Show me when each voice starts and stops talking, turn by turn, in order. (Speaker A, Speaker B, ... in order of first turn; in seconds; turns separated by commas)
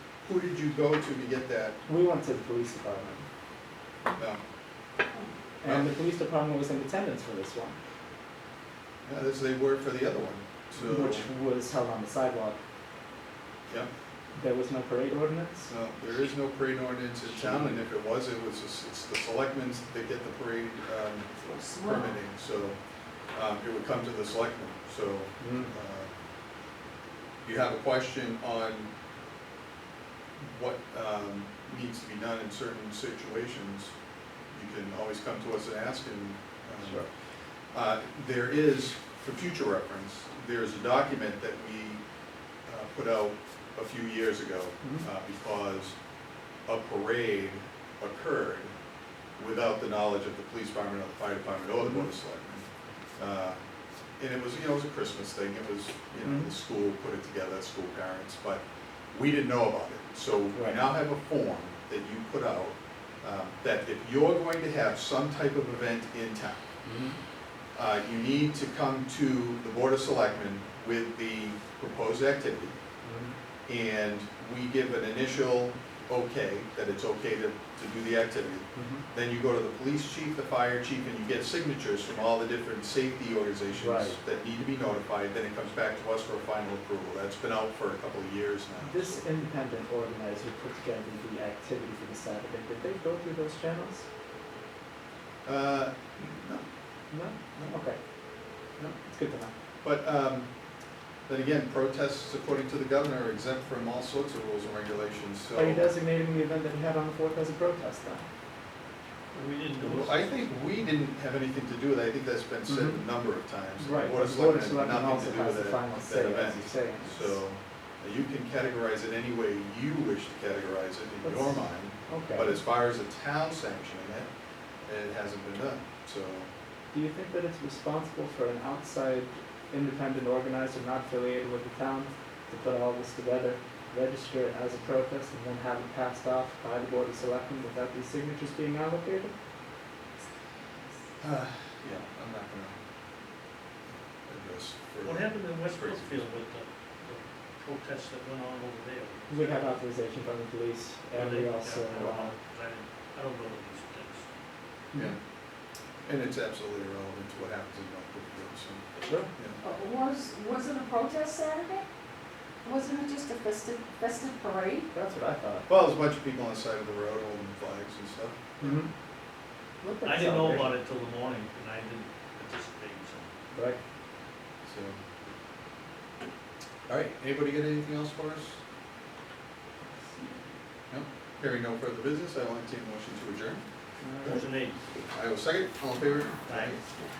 Speaker A: 0.2-1.8, Speaker B: 1.9-3.2, Speaker B: 5.6-7.8, Speaker A: 5.6-5.9, Speaker A: 9.0-11.3, Speaker B: 10.8-12.6, Speaker B: 14.3-15.7, Speaker A: 15.7-22.8, Speaker C: 21.4-22.1, Speaker A: 23.3-26.1, Speaker B: 25.4-25.7, Speaker A: 27.4-28.9, Speaker A: 30.4-33.9, Speaker A: 34.5-37.0, Speaker B: 36.8-37.1, Speaker A: 37.7-42.0, Speaker A: 42.7-45.9, Speaker A: 46.7-48.7, Speaker A: 49.4-52.6, Speaker B: 51.8-52.1, Speaker A: 53.2-53.6, Speaker A: 54.2-66.7, Speaker B: 56.2-56.5, Speaker B: 60.5-60.8, Speaker B: 66.8-67.2, Speaker A: 67.7-72.7, Speaker B: 73.0-73.3, Speaker A: 73.7-89.2, Speaker B: 78.8-79.0, Speaker B: 83.7-84.2, Speaker B: 88.8-94.1, Speaker A: 95.4-96.7, Speaker B: 97.1-98.0, Speaker B: 99.0-99.5, Speaker A: 99.8-100.5, Speaker A: 101.3-105.9, Speaker B: 105.5-108.3, Speaker D: 109.3-110.5, Speaker A: 109.8-124.3, Speaker B: 112.7-113.0, Speaker B: 113.8-117.4, Speaker B: 121.2-122.6, Speaker A: 124.8-126.5, Speaker B: 126.9-139.3, Speaker A: 141.2-142.8, Speaker A: 144.2-146.2, Speaker D: 145.0-149.8, Speaker B: 149.3-152.3, Speaker D: 151.1-154.3, Speaker A: 156.1-159.6, Speaker B: 159.0-159.3, Speaker C: 159.6-161.8, Speaker C: 162.6-164.9, Speaker B: 164.9-165.7, Speaker A: 165.7-168.6, Speaker B: 168.6-168.9, Speaker B: 169.8-170.7, Speaker D: 170.0-173.3, Speaker B: 173.5-173.8, Speaker A: 174.6-175.0, Speaker A: 176.9-178.6, Speaker A: 180.9-183.6, Speaker B: 184.0-184.4, Speaker D: 184.2-184.8, Speaker A: 185.1-186.8, Speaker D: 186.5-186.8